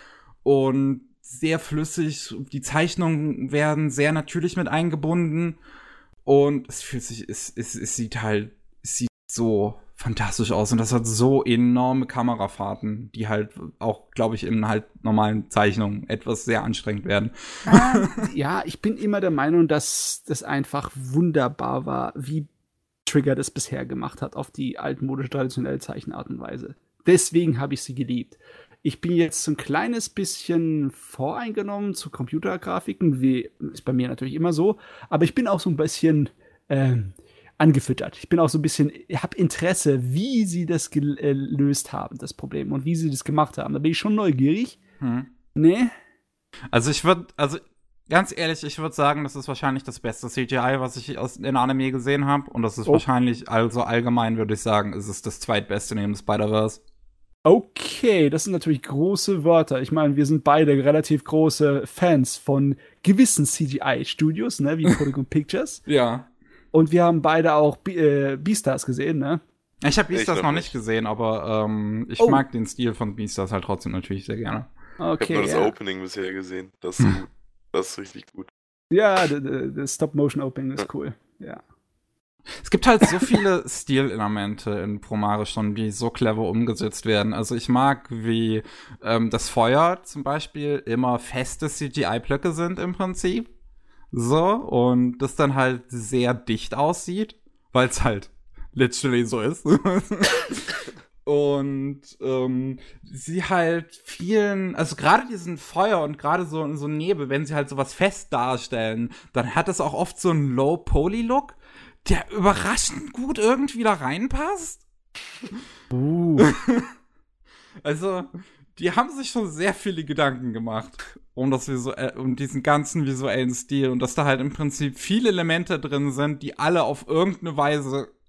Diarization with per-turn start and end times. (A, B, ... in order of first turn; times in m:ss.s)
0:00.4-0:05.6 A
0:06.2-0:18.3 A
0:17.7-0:22.5 B
0:23.0-0:44.8 B
0:45.0-0:45.3 A
0:45.5-0:45.9 B
0:46.7-0:56.8 A
0:57.4-1:05.8 B
1:05.8-1:06.3 A
1:06.7-1:09.4 B
1:09.8-1:14.7 A
1:10.1-1:10.7 C
1:15.0-1:15.7 B
1:15.2-1:18.5 C
1:18.9-1:21.6 B
1:22.6-1:33.5 A
1:34.1-1:54.8 A
1:55.9-1:56.5 B
1:56.4-1:56.9 A
1:57.8-2:08.1 A